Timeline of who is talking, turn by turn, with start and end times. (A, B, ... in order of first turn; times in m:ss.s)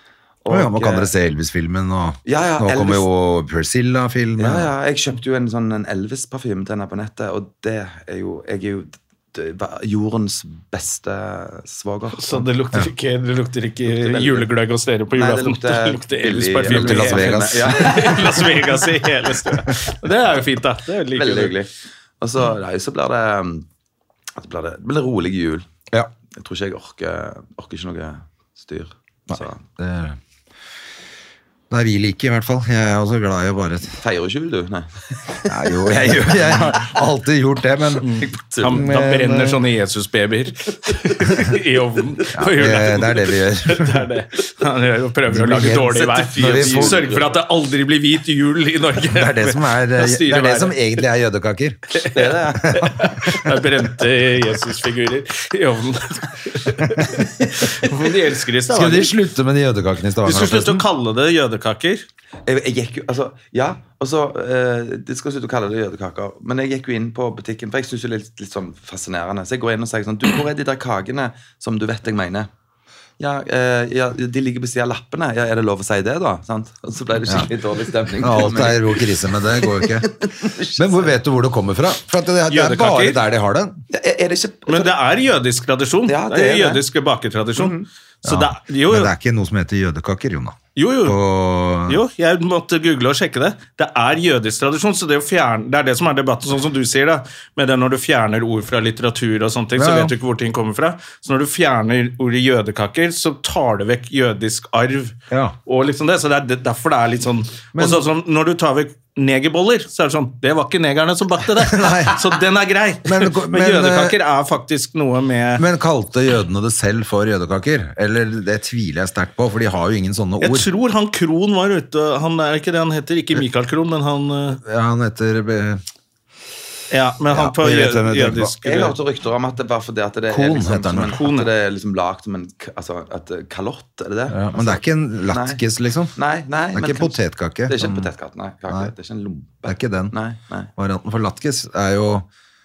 0:00.4-0:01.1 A
0:00.5-0:04.7 B
0:02.2-0:03.1 A
0:04.4-0:12.4 A
0:12.2-0:21.5 C
0:13.8-0:14.5 A
0:15.1-0:18.5 A
0:16.6-0:18.0 B
0:21.2-0:21.7 A
0:22.2-0:23.6 A
0:24.4-0:25.7 A
0:26.4-0:29.6 A
0:29.3-0:30.2 B
0:31.7-0:34.0 B
0:34.0-0:37.0 A
0:35.5-0:38.1 B
0:38.0-0:50.8 C
0:38.2-0:38.8 A
0:38.6-0:39.6 B
0:42.3-0:44.1 B
0:45.3-0:47.0 B
0:45.8-0:47.3 A
0:49.1-0:51.8 B
0:52.0-0:59.1 C
0:52.1-0:52.8 A
0:52.6-0:53.5 B
0:58.7-1:00.8 B
1:00.2-1:02.0 C
1:02.4-1:12.5 A
1:13.2-1:21.1 A
1:18.2-1:23.8 B
1:22.5-1:23.2 C
1:23.9-1:24.9 A
1:24.7-1:29.1 C
1:26.1-1:26.8 A
1:27.6-1:27.8 A
1:28.2-1:32.0 B
1:30.7-1:31.2 C
1:31.8-1:55.6 C
1:39.8-1:40.1 B
1:45.3-1:45.6 B
1:47.7-1:48.1 B
1:51.6-1:52.2 B
1:53.0-1:54.2 B
1:55.6-2:00.7 B
2:00.4-2:04.6 C
2:04.6-2:05.8 B
2:06.9-2:08.9 C
2:07.3-2:08.6 B
2:08.6-2:15.6 A
2:10.3-2:11.2 B
2:11.1-2:11.5 C
2:14.3-2:16.1 B
2:16.2-2:20.7 A
2:16.7-2:18.1 B
2:19.6-2:20.1 B
2:20.8-2:22.3 B